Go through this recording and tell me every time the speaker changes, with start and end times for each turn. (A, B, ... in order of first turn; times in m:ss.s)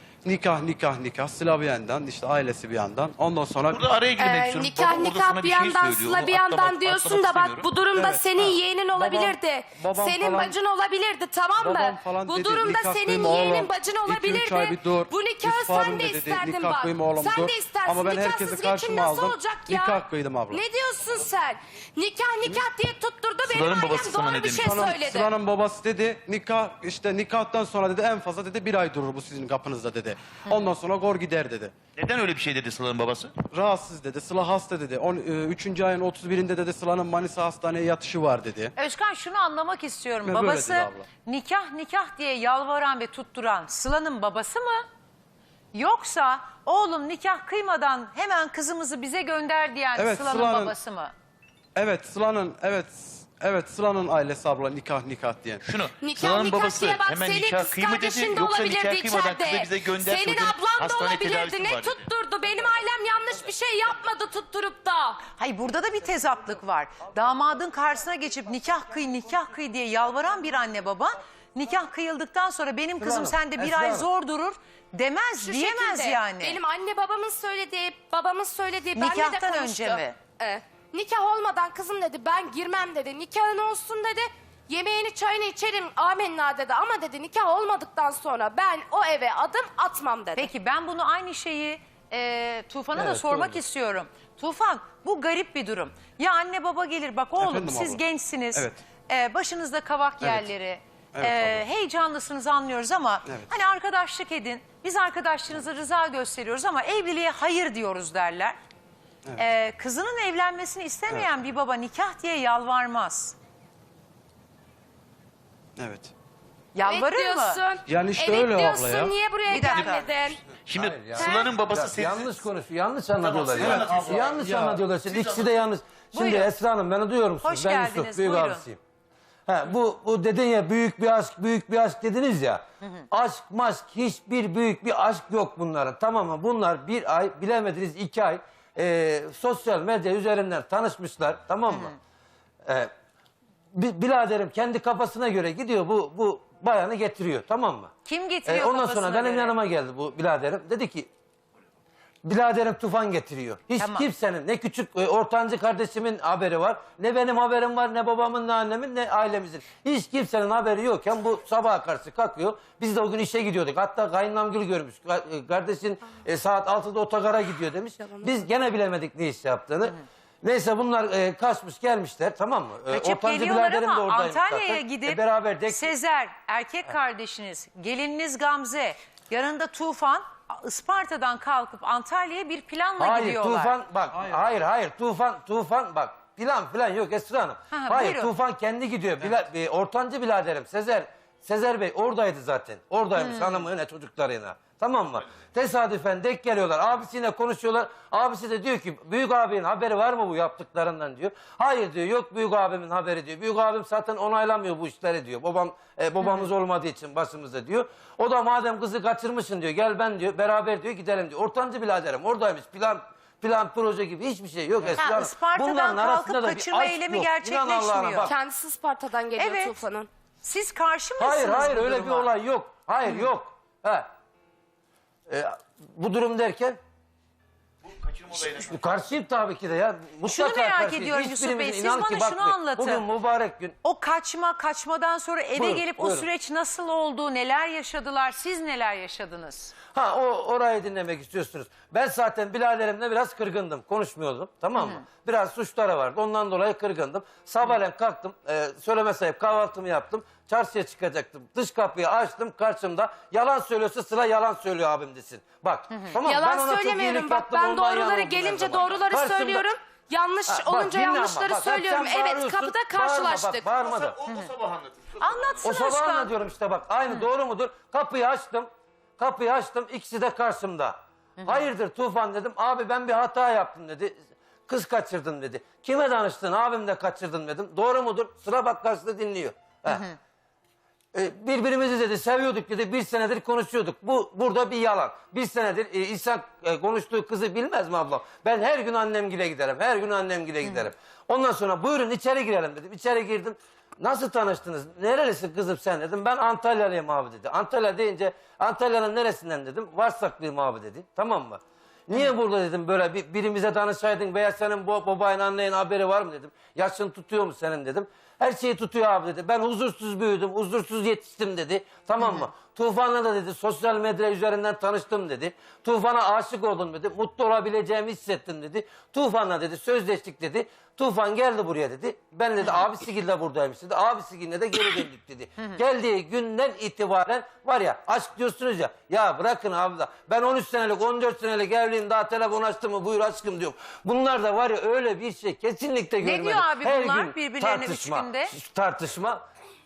0:00.2-0:03.8 A
0:03.7-0:08.6 B
0:04.2-0:20.0 C
0:07.9-0:10.6 A
0:11.6-0:20.6 A
0:20.5-0:25.2 C
0:23.2-0:25.1 B
0:24.6-0:31.7 A
0:32.0-0:33.3 B
0:33.4-0:38.7 A
0:38.8-0:44.8 D
0:40.2-0:41.1 A
0:45.7-0:51.1 D
0:50.0-0:50.7 A
0:51.8-0:55.6 A
0:55.6-1:05.2 B
0:56.0-1:05.1 C
1:05.4-1:16.6 D
1:13.0-1:14.1 E
1:15.5-1:30.4 C
1:18.9-1:20.2 D
1:30.4-1:48.6 D
1:32.9-1:33.6 E
1:37.4-1:38.0 A
1:38.5-1:38.8 A
1:40.2-1:40.5 A
1:41.1-1:41.6 A
1:49.4-1:53.4 D
1:55.8-1:56.1 A
1:56.7-1:57.6 D
1:56.9-1:57.4 C
1:57.3-1:57.8 B
1:57.9-1:59.1 A
1:58.2-2:00.4 C
1:58.4-2:02.3 B
1:59.5-2:00.0 D
2:00.7-2:08.8 E
2:01.2-2:01.5 C
2:03.2-2:04.4 B
2:03.6-2:04.8 A
2:05.1-2:05.4 B
2:06.1-2:06.5 D
2:07.4-2:08.6 D
2:09.5-2:21.9 E
2:21.7-2:21.9 D
2:23.7-2:27.9 E
2:28.0-2:29.6 D
2:28.4-2:31.1 E
2:32.2-2:55.9 E
2:33.8-2:34.1 D
2:52.9-3:03.8 D
3:03.0-3:38.4 E
3:07.7-3:08.3 D
3:13.2-3:13.6 D
3:35.0-3:38.3 D
3:38.4-3:40.1 C
3:38.7-3:38.9 B
3:39.4-3:39.7 D
3:40.4-3:42.3 D
3:41.2-3:44.1 E
3:45.3-3:46.8 E
3:48.3-3:53.8 E
3:50.3-3:53.0 D
3:53.8-3:59.7 D
3:55.6-3:56.2 E
3:59.9-4:19.6 E
4:04.8-4:05.0 D
4:15.9-4:16.2 D
4:16.2-4:23.7 C
4:20.5-4:24.2 E
4:22.0-4:22.4 B
4:24.0-4:25.3 B
4:24.2-4:24.6 D
4:25.2-4:26.3 D
4:25.6-4:34.1 E
4:34.7-4:40.0 E
4:39.9-4:40.2 D
4:41.1-5:39.4 E
5:12.2-5:12.5 D
5:36.2-5:38.5 D